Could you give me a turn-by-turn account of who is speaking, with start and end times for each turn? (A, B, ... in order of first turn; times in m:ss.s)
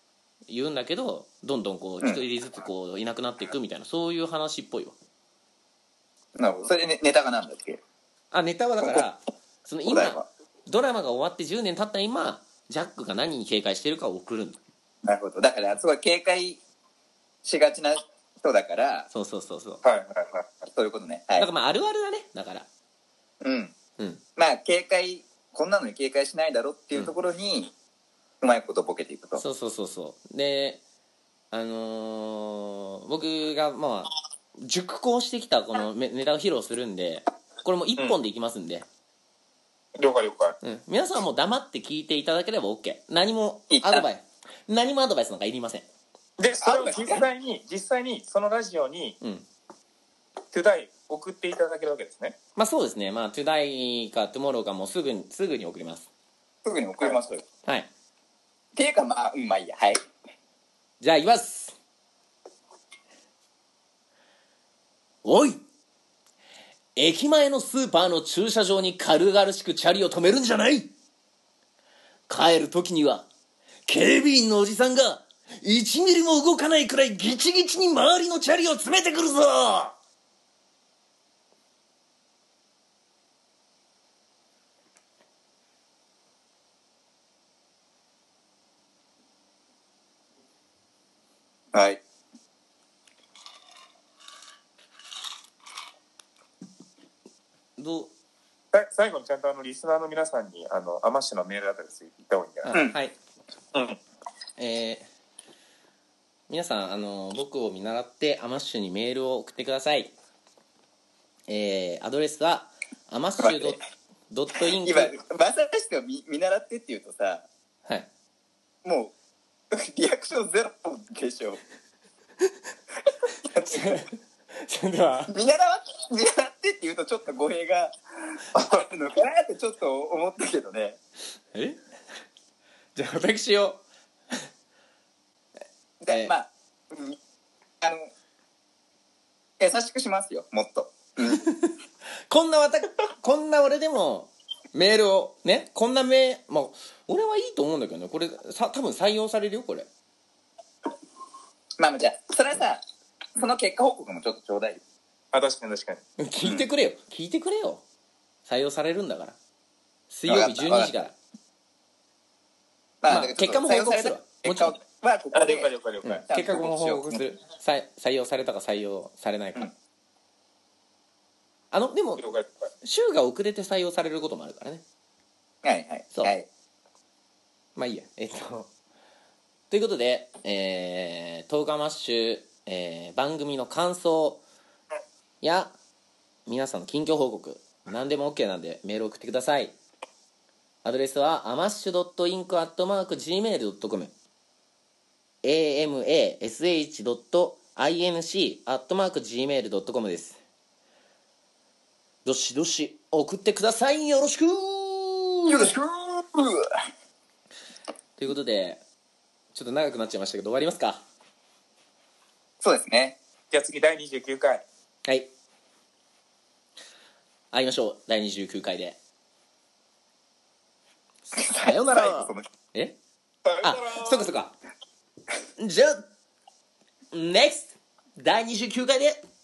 0:00.5-0:05.0 A
0:06.4-0:07.8 B
0:08.3-0:14.6 A
0:09.9-0:10.3 B
0:15.0-0:16.6 B
0:17.4-0:19.1 B
0:19.1-0:19.8 A
0:19.8-0:20.6 C
0:20.7-0:21.5 B
0:21.4-0:22.7 A
0:23.4-0:23.7 B
0:24.4-0:27.7 B
0:28.4-0:29.4 B
0:29.4-0:30.8 A
0:31.5-0:38.9 A
0:40.0-0:40.6 C
0:40.6-0:45.9 A
0:43.7-0:44.0 B
0:46.4-0:49.2 C
0:46.6-0:47.2 B
0:50.5-0:52.4 C
0:52.6-0:56.1 A
0:56.6-0:57.4 B
0:58.7-1:00.0 B
1:01.0-1:01.8 A
1:05.2-1:05.6 A
1:06.9-1:10.9 A
1:12.3-1:13.3 A
1:13.9-1:20.0 A
1:31.7-1:32.0 B
1:37.8-1:38.1 A
1:38.7-1:42.8 C
1:42.6-1:43.2 A
1:42.7-1:43.0 B
1:43.7-1:44.0 C
1:44.6-1:45.1 A
1:46.5-1:50.1 A
1:51.5-1:55.1 A
1:53.4-1:53.8 B
1:54.6-1:57.5 B
1:58.8-1:59.1 B
1:59.7-2:01.6 B
2:03.4-2:04.0 B
2:03.6-2:05.3 A
2:05.3-2:07.9 B
2:08.5-2:11.0 B
2:08.6-2:08.9 C
2:11.5-2:11.8 A
2:12.9-2:13.8 A
2:16.0-2:17.2 B
2:16.1-2:16.3 A
2:17.8-2:18.1 B
2:19.6-2:21.4 B
2:21.2-2:29.9 A
2:31.8-2:32.8 B
2:33.4-2:34.8 B
2:35.3-2:36.0 C
2:36.2-2:37.8 A
2:38.4-2:39.4 A
2:40.1-2:41.1 A
2:40.3-2:41.0 B
2:43.0-2:45.7 B
2:43.1-2:44.8 A
2:45.3-2:46.2 C
2:46.0-2:49.7 A
2:46.3-2:47.2 B
2:51.7-2:52.2 A
2:52.2-2:52.5 C
2:52.8-2:54.8 A
2:55.6-2:56.5 B
2:57.8-2:58.7 A
2:59.7-3:04.4 A
3:05.4-3:05.7 A
3:06.5-3:09.7 A
3:10.8-3:14.1 A
3:15.4-3:20.4 A
3:22.2-3:25.7 A
3:25.5-3:26.7 B
3:28.2-3:28.8 A
3:29.5-3:31.0 A
3:32.6-3:33.2 B
3:33.5-3:34.6 C
3:37.5-3:39.0 A
3:41.3-3:43.0 A
3:41.3-3:42.4 B
3:43.4-3:44.2 C
3:43.6-3:44.6 A
3:45.6-3:46.1 A
3:47.1-3:49.2 A